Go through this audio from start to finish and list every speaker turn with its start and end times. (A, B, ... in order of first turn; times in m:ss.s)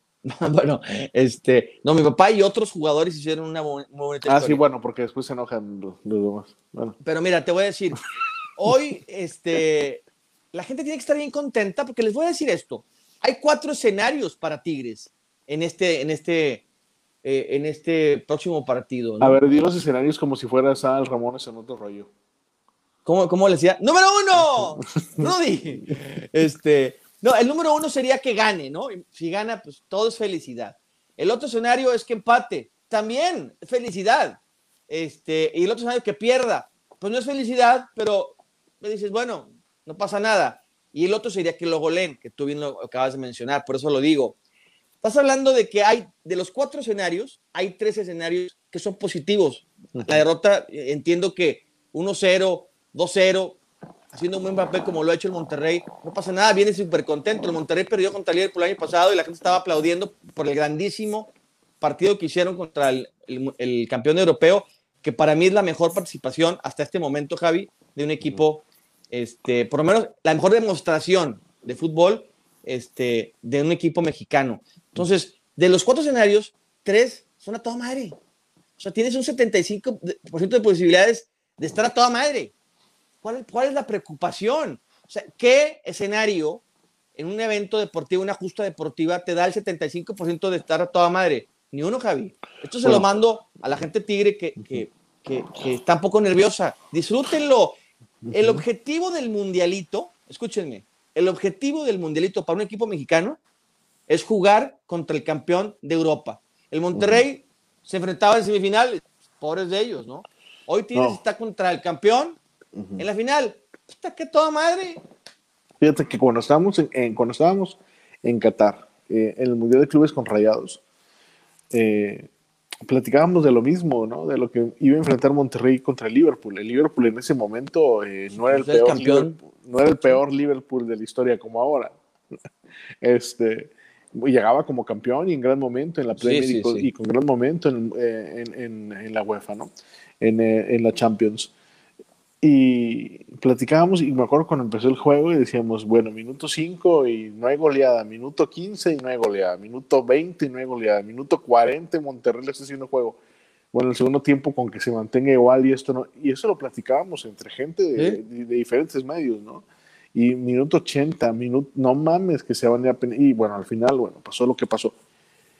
0:00.2-0:04.6 A
0:04.3-0:07.0 B
0:07.0-0:08.0 A
0:08.6-0:16.6 A
0:17.2-0:19.4 A
0:19.2-0:22.1 B
0:23.0-0:44.4 A
0:24.5-0:25.3 B
0:45.0-0:53.6 A
0:50.0-0:50.2 B
0:54.1-1:18.2 A
1:18.8-1:22.5 A
1:23.2-1:26.6 A
1:27.2-1:37.8 A
1:38.2-1:38.6 B
1:38.3-1:43.4 A
1:44.1-1:52.4 A
1:46.9-1:47.2 B
1:52.8-1:53.0 B
1:53.0-1:55.0 A
1:55.8-2:00.8 B
2:01.7-2:02.3 B
2:02.9-2:11.9 B
2:08.4-2:09.4 A
2:13.0-2:21.5 B
2:16.2-2:16.9 A
2:22.4-2:33.2 B
2:33.7-2:45.0 B